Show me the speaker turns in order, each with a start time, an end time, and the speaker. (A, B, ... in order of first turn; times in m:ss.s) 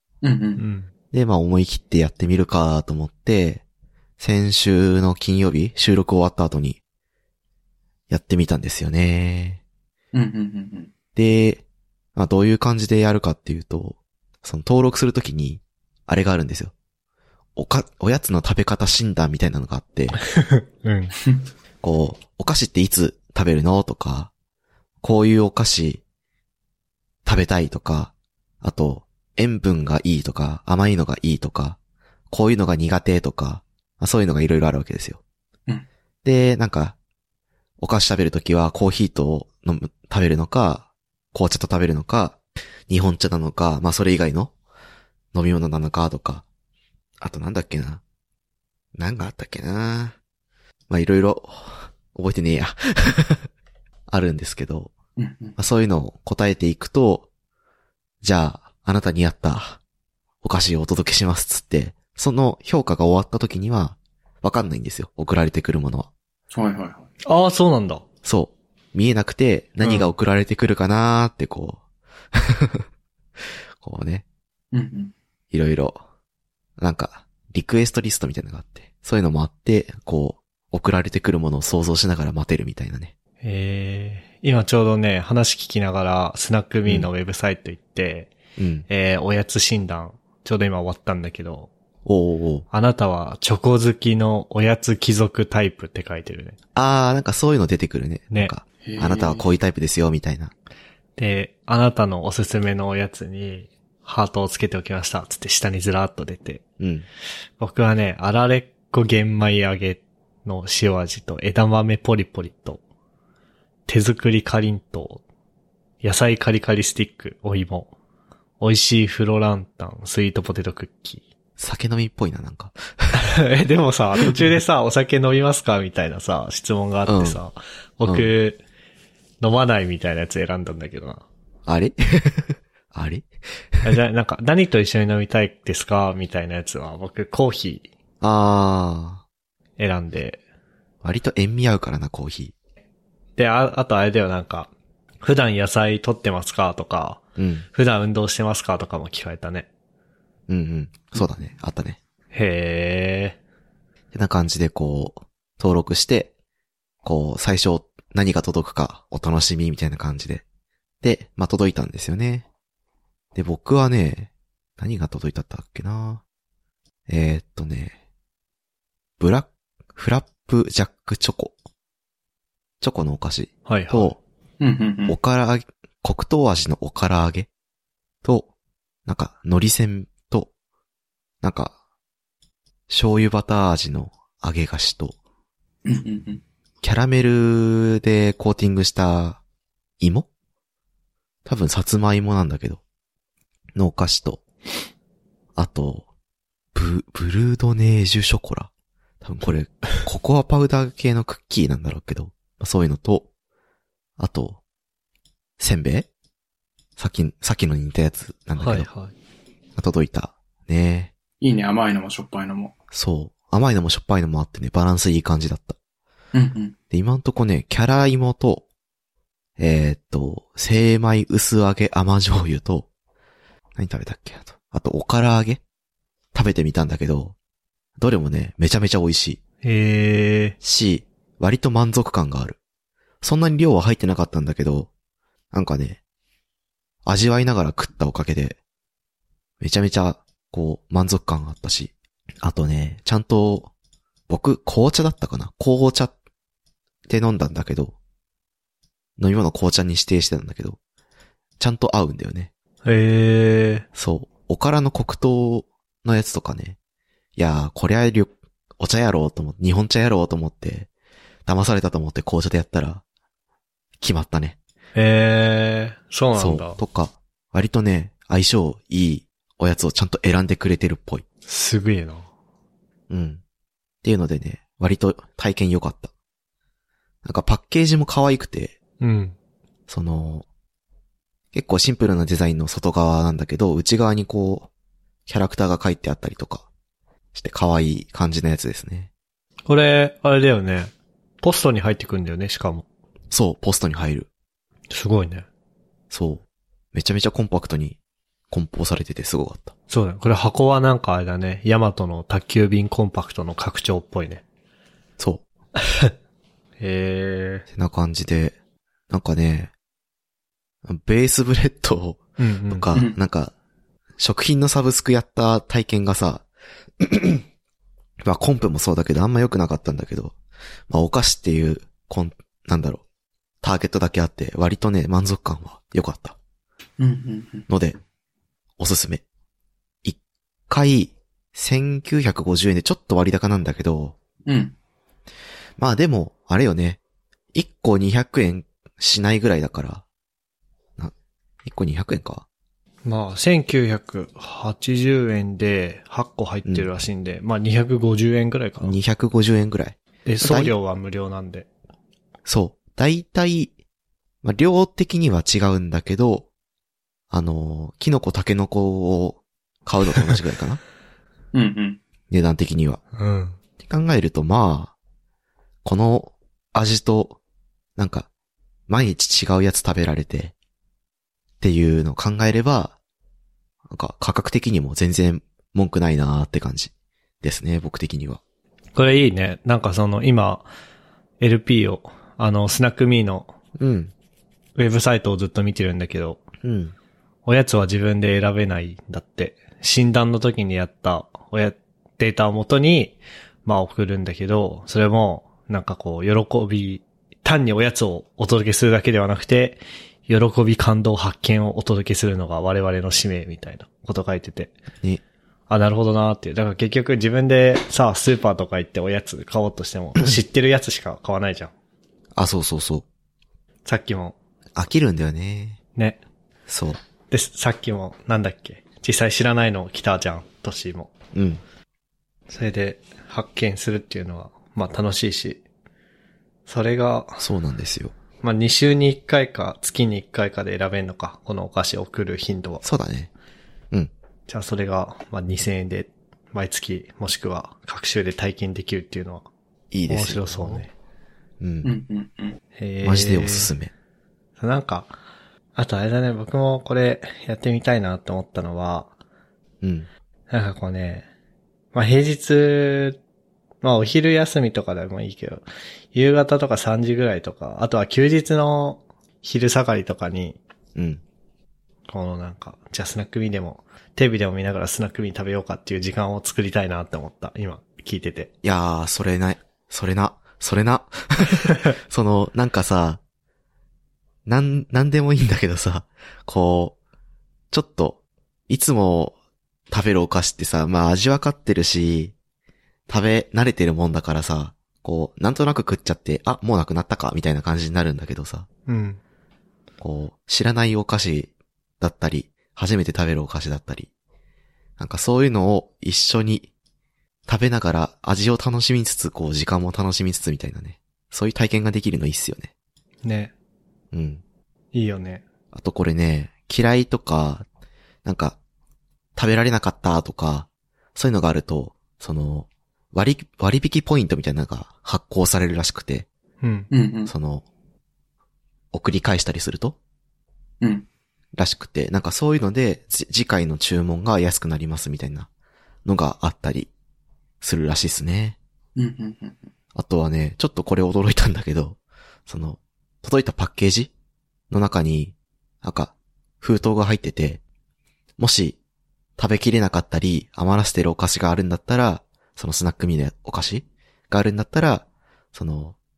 0:00.2-0:00.6 A
0:00.6-0:00.9 B
0:01.1-0:03.6 C
0:04.2-0:06.8 C
0:08.1-0:09.6 C
0:10.1-0:10.9 A
0:11.2-0:11.6 C
0:12.2-0:16.7 C
0:17.6-0:20.2 C
0:20.4-0:21.2 B
0:21.8-0:24.3 C
0:25.0-0:26.0 C
0:27.2-0:31.8 C
0:32.3-0:35.2 C
0:36.2-0:37.0 C
0:37.8-0:44.5 C
0:45.3-0:46.4 C
0:47.2-0:48.0 C
0:49.0-0:50.2 C
0:50.9-0:53.5 C
0:54.1-0:54.9 C
0:55.2-0:55.6 A
0:55.6-0:57.3 C
0:58.2-0:59.8 C
1:00.4-1:06.1 C
1:06.5-1:07.1 A
1:07.2-1:08.0 B
1:08.2-1:11.8 C
1:09.8-1:10.1 B
1:12.3-1:12.8 C
1:13.8-1:14.2 C
1:14.7-1:15.1 A
1:15.5-1:16.0 C
1:16.8-1:23.1 C
1:23.4-1:28.3 B
1:28.6-1:28.9 C
1:28.9-1:31.7 B
1:32.0-1:32.6 C
1:32.7-1:36.6 B
1:36.8-1:40.5 C
1:38.8-1:39.5 A
1:41.2-1:46.6 B
1:46.8-1:47.1 C
1:47.6-1:52.8 B
1:53.9-1:55.2 B
1:56.0-1:57.9 B
1:58.6-2:01.2 B
2:01.6-2:03.2 C
2:03.1-2:08.6 B
2:07.1-2:07.4 C
2:08.0-2:08.3 C
2:09.4-2:11.2 B
2:11.7-2:13.3 C
2:13.8-2:17.9 B
2:18.2-2:19.2 C
2:19.8-2:20.4 B
2:21.0-2:22.5 C
2:23.4-2:27.2 B
2:27.4-2:27.7 C
2:27.7-2:29.7 B
2:30.5-2:32.0 C
2:32.3-2:33.4 B
2:34.1-2:36.3 C
2:37.0-2:40.4 C
2:41.0-2:42.5 C
2:43.4-2:46.2 C
2:47.1-2:48.0 C
2:49.2-2:51.6 C
2:52.8-2:54.2 C
2:53.7-2:54.2 B
2:54.6-2:55.2 A
2:55.1-2:57.5 C
2:58.2-2:58.5 C
2:59.1-3:00.5 C
3:01.4-3:01.8 C
3:02.9-3:05.2 C
3:05.8-3:06.4 A
3:06.8-3:09.4 C
3:10.0-3:10.3 C
3:11.4-3:12.8 C
3:13.8-3:14.4 C
3:15.6-3:16.0 C
3:16.7-3:18.7 C
3:19.2-3:23.3 C
3:24.2-3:24.6 C
3:25.6-3:26.1 C
3:27.0-3:28.9 C
3:28.6-3:29.1 B
3:29.8-3:31.1 C
3:31.4-3:32.7 A
3:32.9-3:35.8 C
3:36.3-3:36.8 A
3:36.9-3:38.6 C
3:39.6-3:42.9 C
3:43.8-3:45.6 C
3:46.3-3:47.4 C
3:48.0-3:49.4 C
3:49.6-3:50.6 B
3:50.6-3:52.6 C
3:53.2-3:54.9 C
3:55.5-3:56.0 C
3:57.0-3:58.6 C
3:59.6-4:03.7 C
4:04.3-4:06.1 C
4:07.1-4:08.0 C
4:09.2-4:10.8 C
4:11.6-4:12.5 C
4:12.8-4:13.9 B
4:14.0-4:16.8 C
4:17.4-4:20.9 C
4:21.5-4:23.0 C
4:24.0-4:24.6 C
4:25.0-4:26.8 B
4:26.4-4:31.2 C
4:31.5-4:32.3 B
4:33.1-4:33.4 C
4:34.0-4:36.1 C
4:37.2-4:38.8 C
4:39.0-4:39.4 B
4:39.9-4:40.5 C
4:41.5-4:44.7 C
4:45.3-4:46.7 C
4:47.4-4:49.1 C
4:49.7-4:52.8 B
4:53.3-4:54.3 C
4:54.9-4:55.5 B
4:56.1-4:56.4 C
4:56.9-4:58.0 C
4:58.5-4:59.7 C
4:59.9-5:04.4 B
5:05.8-5:06.1 B
5:06.8-5:07.6 B
5:07.7-5:08.6 C
5:09.1-5:09.7 C
5:10.9-5:13.5 C
5:12.4-5:12.9 B
5:14.2-5:16.4 C
5:17.0-5:17.4 C
5:18.2-5:20.4 C
5:20.9-5:23.0 C
5:23.6-5:26.4 C
5:27.0-5:27.7 A
5:27.7-5:28.0 C
5:28.8-5:29.2 C
5:30.7-5:34.2 C
5:34.5-5:34.8 A
5:35.8-5:37.0 C
5:37.5-5:40.0 C
5:41.6-5:42.4 C
5:43.0-5:49.0 B
5:46.6-5:47.0 C
5:48.8-5:50.8 C
5:50.2-5:51.7 B
5:52.5-5:53.7 C
5:54.4-5:56.5 C
5:57.3-6:00.8 C
6:01.5-6:02.0 A
6:02.3-6:03.0 C
6:03.1-6:03.6 B
6:03.8-6:04.9 C
6:05.8-6:07.4 C
6:08.0-6:08.3 C
6:08.9-6:10.5 C
6:11.6-6:13.0 C
6:13.9-6:16.9 C
6:17.4-6:18.4 C
6:19.0-6:20.7 B
6:21.4-6:23.5 B
6:23.8-6:24.1 C
6:24.8-6:26.4 B
6:26.6-6:26.9 C
6:27.4-6:44.7 B
6:45.7-6:51.7 B
6:52.4-6:53.0 C
6:53.8-6:54.4 B
6:54.8-6:55.8 C
6:56.0-6:56.2 B
6:56.7-6:57.0 C
6:57.3-7:01.1 B
7:01.3-7:01.6 C
7:02.5-7:05.6 B
7:06.7-7:07.4 B
7:07.4-7:08.1 C
7:08.4-7:12.8 B
7:12.8-7:13.3 C
7:14.5-7:19.5 B
7:19.9-7:20.9 C
7:20.1-7:20.9 B
7:21.6-7:21.9 C
7:21.8-7:22.6 A
7:22.8-7:23.7 B
7:23.0-7:23.9 C
7:24.6-7:25.1 B
7:25.8-7:29.1 B
7:29.8-7:30.1 C
7:30.5-7:31.3 B
7:31.9-7:33.2 B
7:33.8-7:40.6 B
7:41.0-7:41.2 C
7:42.1-7:48.5 B
7:48.6-7:53.2 C
7:54.5-7:57.0 C
7:57.7-7:59.4 C
7:59.9-8:02.4 C
8:03.1-8:08.7 C
8:08.9-8:09.2 B
8:10.0-8:14.1 C
8:15.0-8:16.7 C
8:17.5-8:22.7 C
8:23.2-8:23.5 B
8:24.1-8:24.4 C
8:24.9-8:25.4 B
8:25.7-8:27.7 C
8:28.2-8:28.6 C
8:29.4-8:36.3 C
8:36.6-8:36.9 B
8:36.9-8:37.3 A
8:37.3-8:37.6 C
8:38.9-8:40.0 C
8:40.8-8:41.1 A
8:41.6-8:45.5 C
8:46.0-8:46.9 C
8:47.6-8:48.6 C
8:49.0-8:49.7 A
8:50.0-8:54.1 C
8:54.7-8:57.6 C
8:58.4-8:58.8 C
8:59.4-9:06.0 C